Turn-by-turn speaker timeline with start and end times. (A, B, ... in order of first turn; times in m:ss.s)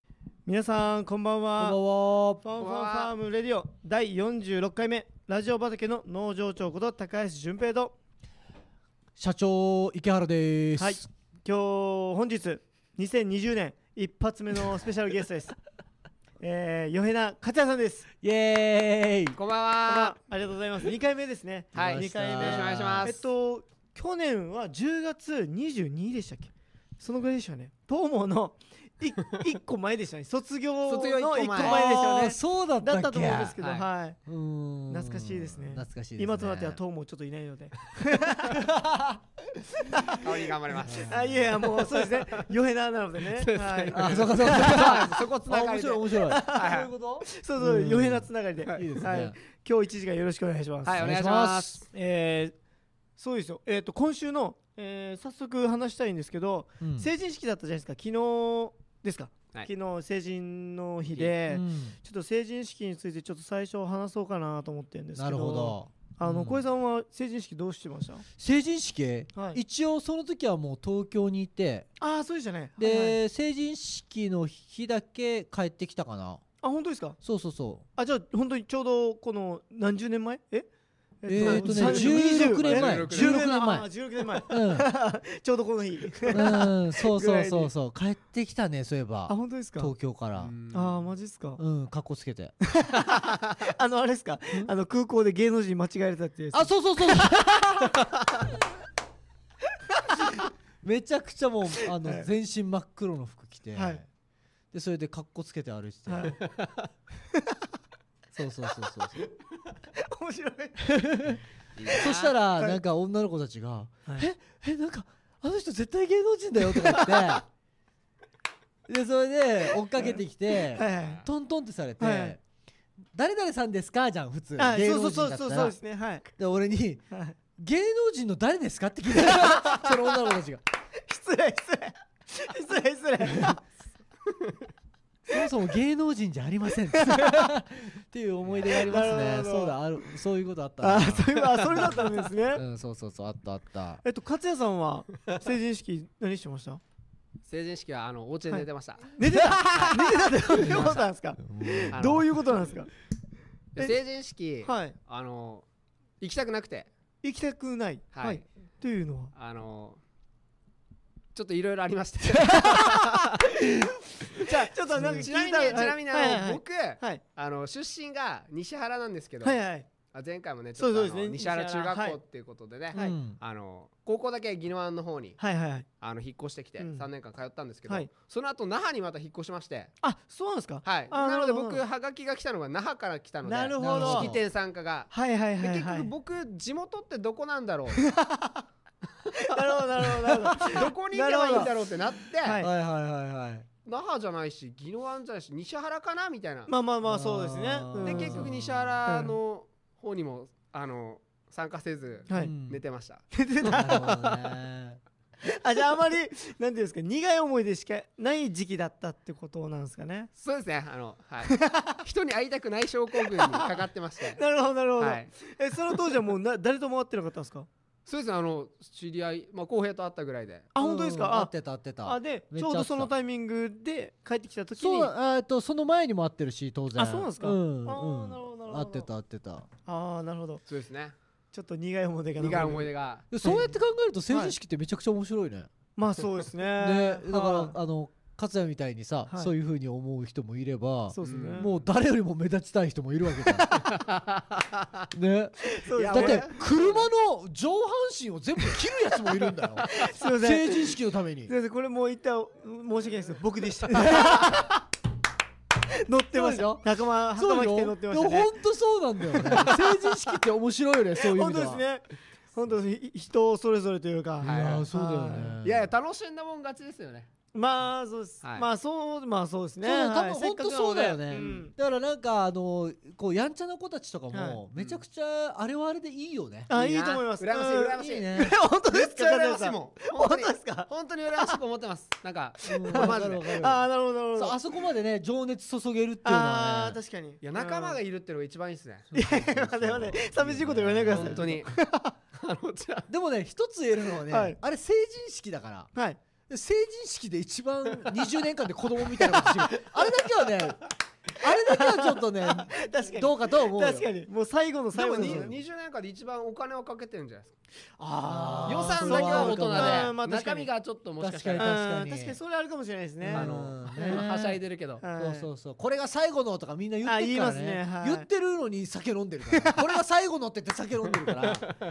0:00.5-0:01.8 A
0:01.6-0:02.4 B
0:02.4-0:07.9 A
0:02.6-0:03.1 C
0:09.2-0:11.0 B
0:10.8-0:15.6 A
0:16.4-0:18.1 A
0:18.2-0:19.4 B
0:19.3-0:20.2 C
0:19.9-0:34.2 A
0:21.7-0:23.1 B
0:21.8-0:23.2 C
0:30.8-0:31.8 C
0:31.6-0:33.6 B
0:33.6-0:33.9 C
0:34.3-0:36.8 B
0:34.9-0:38.9 A
0:39.5-0:45.2 A
0:40.1-0:42.5 C
0:40.8-0:41.5 B
0:43.3-0:47.2 C
0:43.9-0:46.8 B
0:46.2-0:51.1 A
0:47.6-0:49.4 B
0:48.6-0:49.1 C
0:50.8-0:51.9 C
0:51.0-0:51.8 B
0:51.9-0:52.6 A
0:53.2-1:08.3 A
0:56.8-0:57.1 B
1:01.5-1:02.0 B
1:05.2-1:06.6 B
1:08.4-1:11.9 B
1:09.3-1:09.6 A
1:12.0-1:13.2 A
1:12.8-1:16.4 B
1:16.6-1:17.2 A
1:17.2-1:17.8 B
1:18.0-1:20.7 A
1:21.2-1:27.7 A
1:21.3-1:24.9 B
1:21.4-1:23.5 C
1:26.3-1:30.5 B
1:29.3-1:29.9 A
1:30.4-1:31.0 C
1:30.7-1:31.6 A
1:31.6-1:32.5 B
1:32.7-1:37.4 A
1:36.5-1:38.1 B
1:39.9-1:40.4 A
1:40.8-1:44.1 B
1:41.8-1:42.3 A
1:43.8-1:44.0 A
1:44.7-1:46.4 B
1:46.1-1:46.4 A
1:46.4-1:46.9 C
1:48.3-1:49.3 B
1:49.9-1:51.4 A
1:51.0-1:51.4 B
1:51.8-1:52.4 C
1:51.9-1:52.8 A
1:52.0-1:57.5 B
1:56.7-1:57.4 A
1:58.9-2:02.4 B
1:59.9-2:01.2 A
2:00.9-2:01.2 C
2:02.0-2:02.4 A
2:03.1-2:05.8 B
2:04.6-2:06.3 A
2:06.4-2:10.6 B
2:07.1-2:07.4 A
2:09.2-2:10.3 A
2:10.9-2:13.6 A
2:15.3-2:24.0 B
2:16.9-2:17.5 A
2:18.6-2:19.8 A
2:20.8-2:22.6 A
2:24.0-2:26.8 A
2:27.4-2:31.1 C
2:28.5-2:32.9 A
2:29.5-2:29.8 B
2:30.6-2:32.2 B
2:31.9-2:32.3 C
2:33.8-2:35.7 C
2:34.6-2:35.0 A
2:36.2-2:36.9 C
2:37.2-2:39.3 A
2:38.1-2:38.4 C
2:39.4-2:40.0 C
2:41.4-2:43.5 C
2:42.3-2:47.2 A
2:44.4-2:49.6 C
2:44.9-2:45.3 B
2:49.4-2:49.9 A
2:50.1-2:55.4 C
2:50.8-2:52.2 A
2:52.9-2:53.2 A
2:53.0-2:53.4 B
2:55.4-2:55.9 A
2:56.0-2:59.9 C
2:56.8-2:57.1 A
3:00.0-3:01.8 A
3:00.8-3:08.1 C
3:03.4-3:04.4 A
3:03.8-3:04.4 B
3:05.1-3:06.1 A
3:08.0-3:08.6 A
3:09.3-3:12.6 C
3:09.3-3:11.7 A
3:10.3-3:10.6 B
3:12.4-3:12.7 A
3:12.6-3:13.7 B
3:13.8-3:16.7 C
3:16.7-3:18.5 A
3:17.0-3:18.7 B
3:18.0-3:24.6 C
3:19.0-3:19.4 A
3:22.3-3:22.5 A
3:22.3-3:22.8 B
3:23.3-3:24.1 A
3:23.6-3:25.0 B
3:25.4-3:30.3 A
3:30.4-3:34.4 C
3:31.4-3:32.0 A
3:33.3-3:33.8 A
3:34.3-3:37.7 A
3:35.0-3:35.3 C
3:38.1-3:40.7 C
3:40.7-3:41.5 A
3:40.8-3:43.1 B
3:42.0-3:45.1 A
3:44.8-3:49.7 B
3:47.0-3:49.1 A
3:49.8-3:50.6 A
3:50.7-3:51.2 C
3:51.5-3:52.9 A
3:52.4-3:53.3 C
3:53.3-3:55.7 B
3:53.4-3:54.6 A
3:56.0-3:57.8 A
3:56.8-4:03.9 B
4:01.1-4:01.7 A
4:01.2-4:01.7 C
4:03.8-4:05.0 C
4:05.1-4:11.5 B
4:05.6-4:06.6 A
4:06.0-4:07.1 C
4:09.8-4:14.8 A
4:13.9-4:14.6 B
4:15.9-4:18.6 A
4:16.3-4:21.8 B
4:19.3-4:19.7 A
4:19.5-4:20.0 C
4:21.2-4:25.6 A
4:24.4-4:24.9 C
4:24.4-4:25.9 B
4:25.6-4:27.3 C
4:27.5-4:31.7 A
4:29.8-4:36.7 B
4:31.3-4:31.6 C
4:34.3-4:34.6 A
4:34.8-4:35.0 C
4:36.7-4:41.6 A
4:36.7-4:43.6 C
4:38.0-4:38.6 B
4:42.7-4:47.0 B
4:42.8-4:44.6 A
4:46.2-4:48.0 A
4:47.4-4:49.1 C
4:49.1-4:51.6 B
4:49.1-4:52.1 A
4:51.1-4:51.7 C
4:52.3-4:53.1 C
4:53.1-4:55.9 B
4:54.3-4:54.6 A
4:55.9-4:56.2 A
4:56.5-5:00.8 B
5:01.4-5:04.1 B
5:01.4-5:05.6 A
5:05.0-5:07.5 C
5:05.2-5:05.6 B
5:08.0-5:10.7 A
5:08.2-5:10.1 B
5:08.7-5:11.7 C
5:11.2-5:12.4 B
5:11.6-5:14.2 A
5:13.2-5:21.7 B
5:13.4-5:15.0 C
5:15.0-5:15.5 A
5:17.0-5:18.3 A
5:19.5-5:19.9 A
5:21.4-5:21.7 C